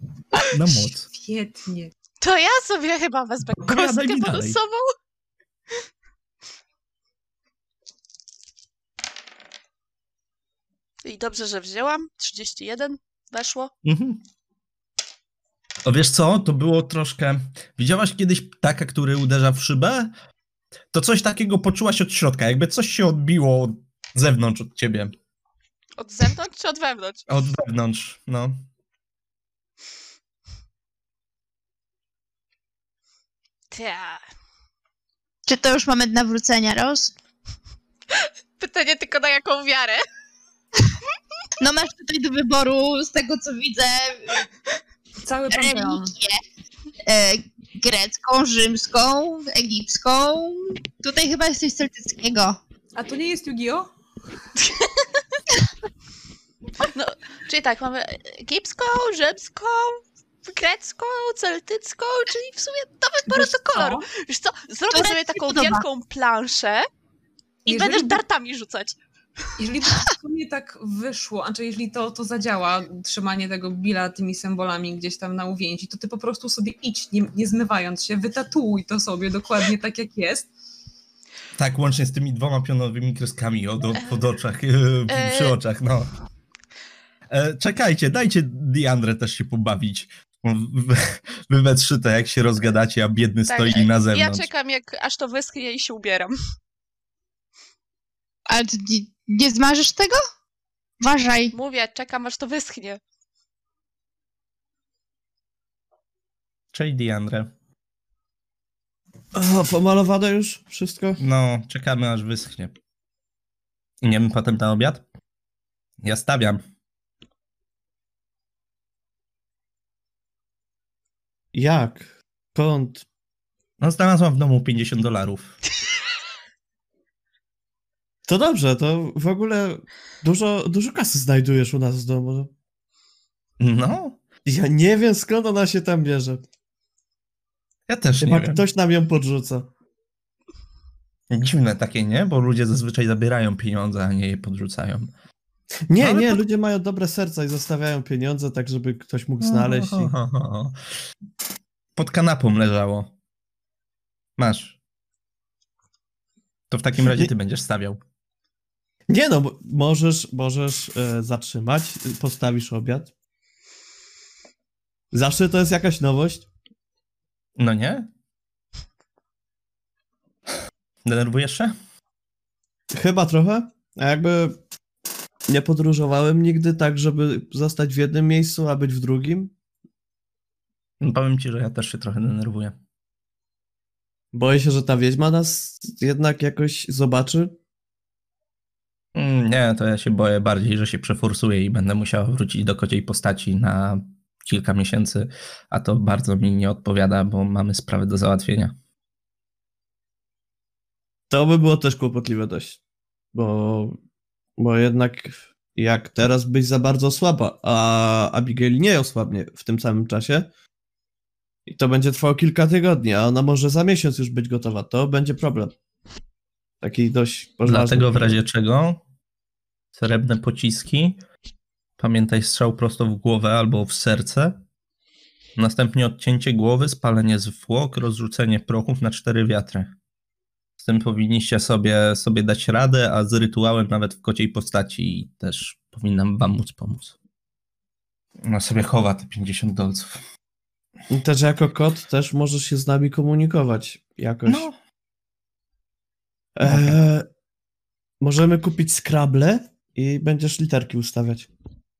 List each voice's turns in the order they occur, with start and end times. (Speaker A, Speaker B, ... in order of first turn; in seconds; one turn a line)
Speaker A: 0.4-1.1
Speaker B: 1.1-1.9
Speaker C: 2.2-4.9
Speaker A: 3.6-4.6
Speaker C: 11.0-13.7
Speaker A: 13.8-14.2
Speaker A: 15.8-20.1
Speaker A: 20.9-25.1
Speaker C: 26.0-27.2
Speaker A: 27.3-28.6
Speaker C: 33.7-34.2
Speaker D: 35.5-37.1
Speaker C: 38.2-40.0
Speaker D: 41.6-44.4
Speaker B: 45.2-46.1
Speaker D: 45.5-46.4
Speaker D: 47.0-52.6
Speaker B: 52.9-53.9
Speaker C: 54.6-55.2
Speaker C: 56.8-66.8
Speaker B: 63.2-64.1
Speaker D: 64.9-65.8
Speaker B: 67.6-68.2
Speaker C: 67.7-69.0
Speaker B: 69.6-80.5
Speaker A: 81.6-86.1
Speaker C: 85.1-85.5
Speaker A: 87.3-94.5
Speaker C: 93.5-96.3
Speaker D: 98.5-100.2
Speaker D: 101.0-101.5
Speaker C: 101.5-103.0
Speaker A: 106.7-107.5
Speaker E: 109.3-111.2
Speaker A: 111.2-112.7
Speaker A: 114.0-115.0
Speaker A: 116.0-116.6
Speaker E: 121.5-123.0
Speaker A: 123.8-125.6
Speaker E: 128.3-132.5
Speaker A: 133.6-134.2
Speaker E: 134.4-136.4
Speaker A: 137.9-138.6
Speaker E: 138.2-139.7
Speaker A: 141.3-145.1
Speaker E: 145.9-150.1
Speaker A: 146.0-146.4
Speaker A: 149.4-150.8
Speaker A: 151.9-153.1
Speaker A: 154.4-154.8
Speaker A: 156.7-158.0
Speaker E: 157.0-157.3
Speaker E: 159.1-163.1
Speaker E: 165.1-166.4
Speaker A: 167.6-168.1
Speaker A: 171.0-171.7
Speaker E: 172.9-174.6
Speaker E: 175.5-179.5
Speaker A: 181.0-182.8
Speaker E: 184.3-187.5
Speaker A: 189.1-198.7
Speaker E: 201.3-202.8
Speaker E: 203.3-204.0
Speaker E: 204.6-210.5
Speaker E: 211.7-215.7
Speaker E: 216.8-218.4
Speaker A: 217.7-219.0
Speaker A: 219.9-221.2
Speaker A: 222.0-224.6
Speaker A: 225.6-229.9
Speaker A: 230.8-237.1
Speaker A: 238.4-240.2
Speaker E: 241.1-244.7
Speaker A: 244.4-244.8
Speaker E: 246.6-247.3
Speaker A: 246.6-247.0
Speaker E: 248.2-251.5